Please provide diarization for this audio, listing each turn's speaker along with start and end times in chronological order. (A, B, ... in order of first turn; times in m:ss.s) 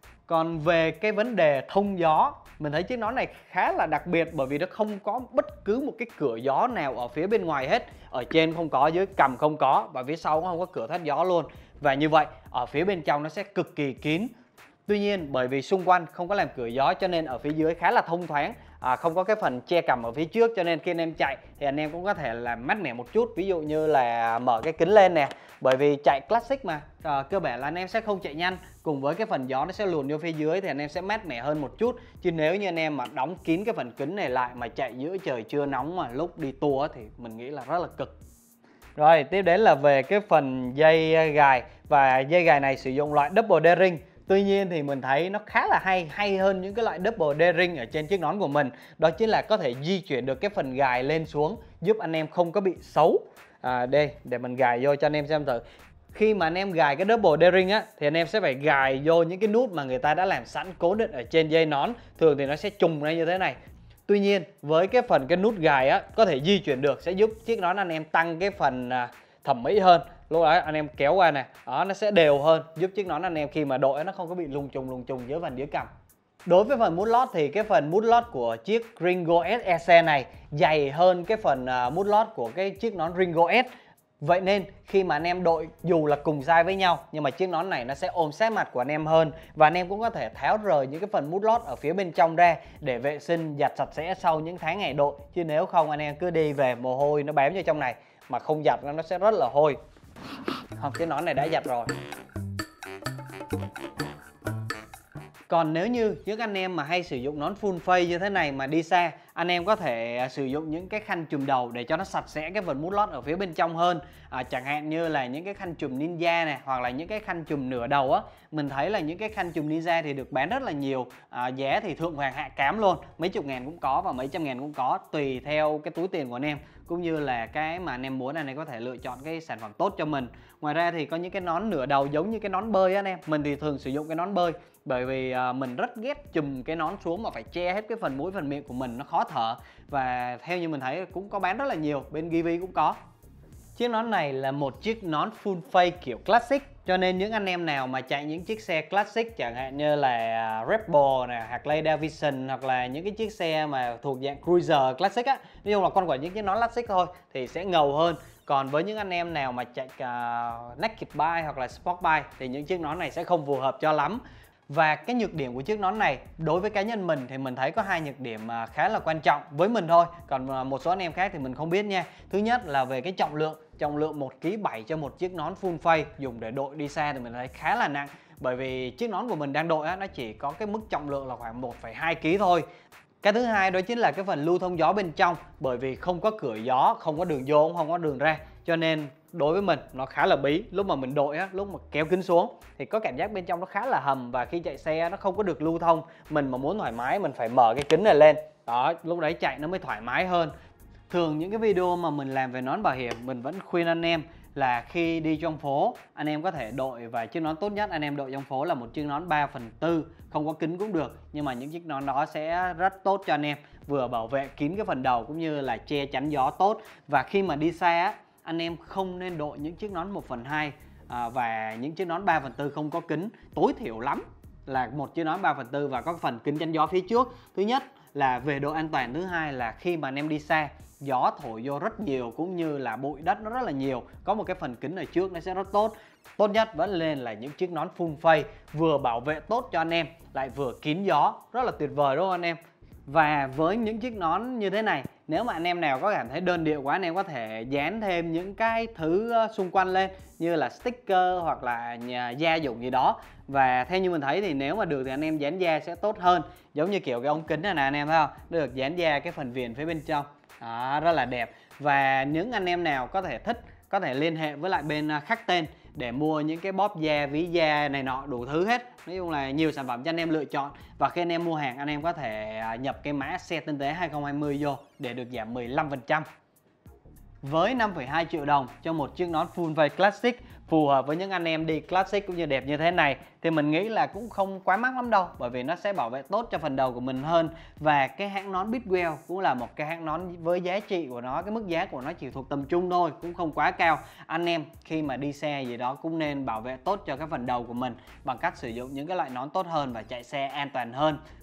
0:00.3-0:14.3 A
0:14.9-0:38.1 A
0:39.0-1:15.9 A
1:16.4-1:23.7 A
1:24.2-1:39.8 A
1:40.8-1:41.9 A
1:45.5-2:23.0 A
2:23.8-3:02.6 A
3:03.2-3:20.5 A
3:21.1-4:36.2 A
4:37.4-5:01.2 A